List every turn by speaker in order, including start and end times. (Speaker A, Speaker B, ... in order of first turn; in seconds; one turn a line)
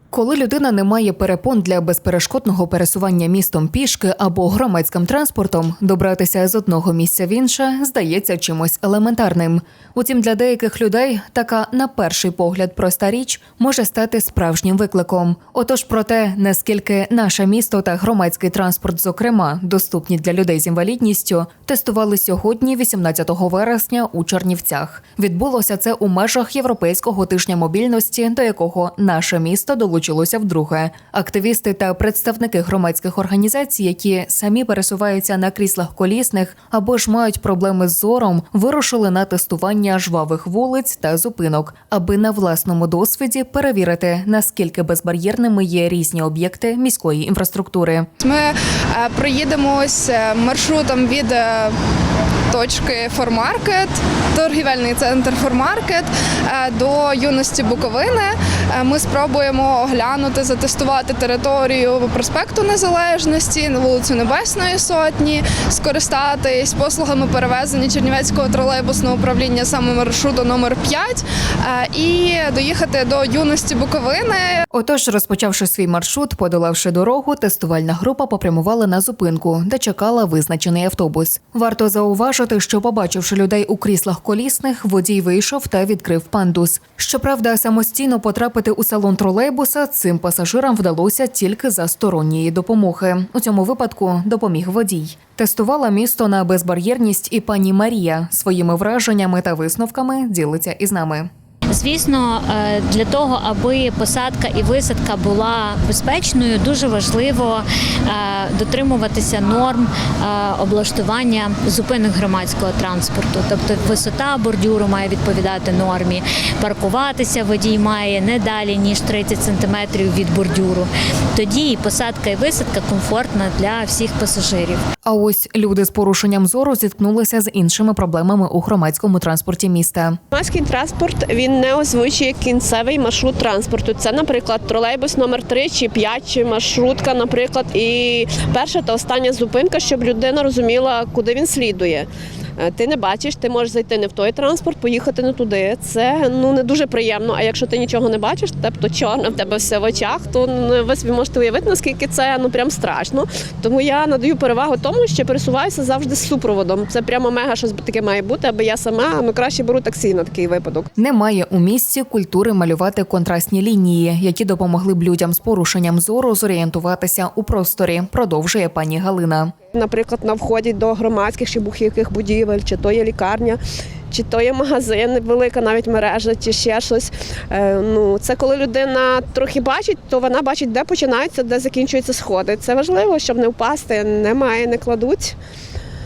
Speaker A: 0.1-48.1
Speaker B: 48.2-51.8
Speaker B: 52.5-74.6
Speaker A: 74.7-101.3
Speaker C: 101.7-124.8
Speaker A: 125.0-130.2
Speaker D: 130.3-160.9
Speaker A: 161.0-169.5
Speaker D: 169.7-185.4